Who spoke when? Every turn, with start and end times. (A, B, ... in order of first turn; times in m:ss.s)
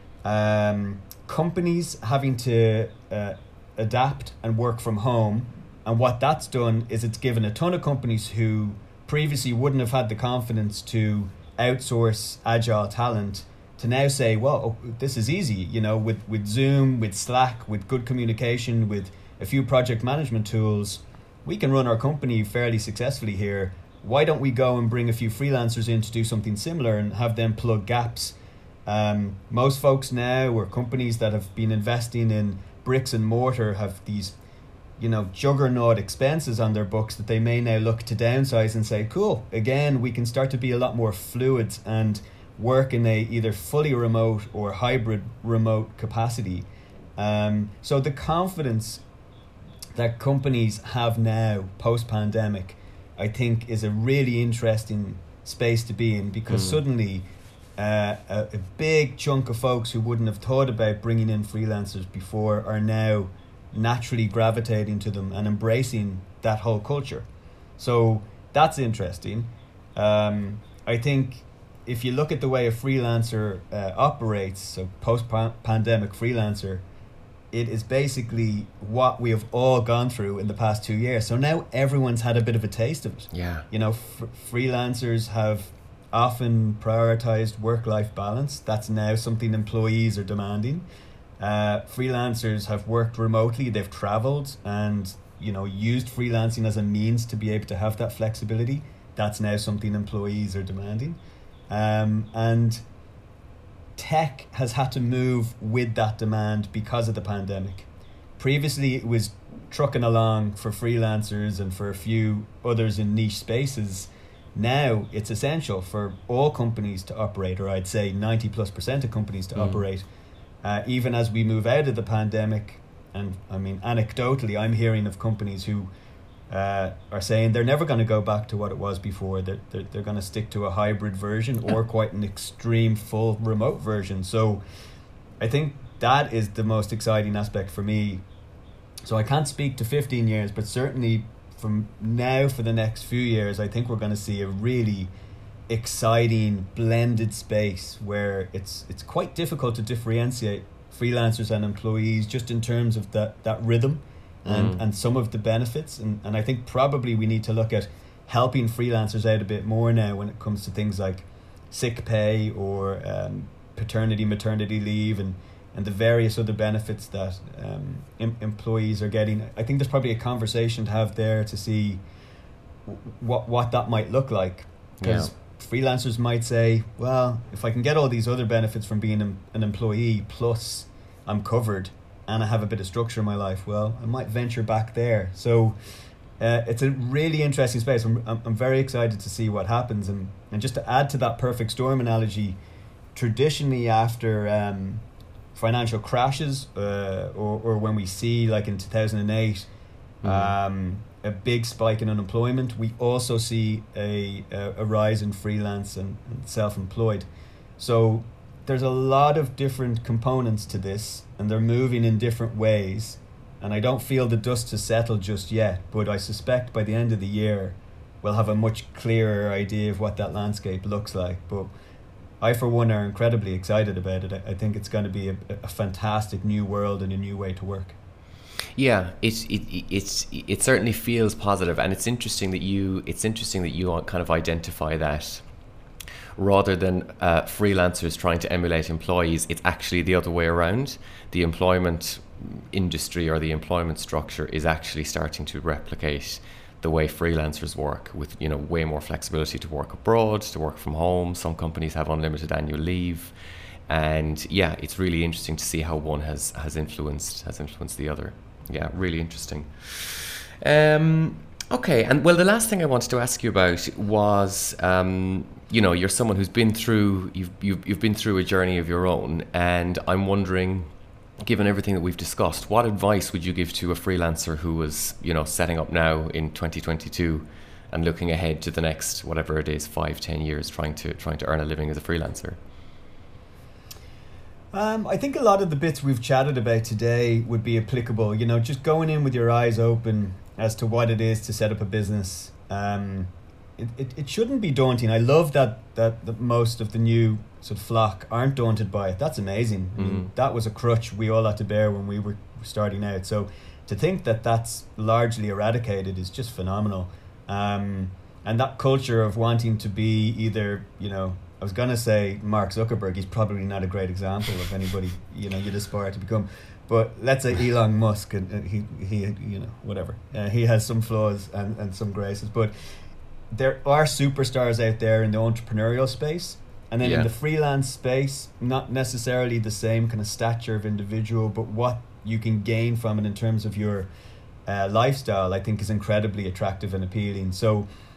0:00.2-0:34.4 A
0:35.0-0:49.0 A
0:49.9-0:57.2 A
0:56.5-0:56.8 B
0:57.8-1:07.3 A
1:07.8-1:16.8 A
1:17.5-1:30.8 A
1:23.3-1:23.7 B
1:31.4-1:41.2 A
1:41.7-1:42.8 A
1:44.0-2:00.0 A
1:59.5-1:59.8 B
2:00.6-2:05.9 A
2:06.5-2:14.6 A
2:15.4-2:18.2 A
2:19.0-2:25.1 A
2:25.7-2:52.0 A
2:34.4-2:34.8 B
2:52.8-3:05.8 A
2:55.0-2:55.3 B
3:06.4-3:12.6 A
3:13.1-3:19.7 A
3:20.2-3:20.5 B
3:20.2-3:27.3 A
3:27.8-3:41.7 A
3:42.4-3:48.0 A
3:48.8-3:55.4 B
3:56.4-4:13.3 B
4:13.9-4:30.9 B
4:31.4-4:42.6 B
4:44.7-5:22.7 A
5:00.0-5:00.3 B
5:23.5-5:34.1 A
5:27.0-5:27.3 B
5:34.7-5:37.8 A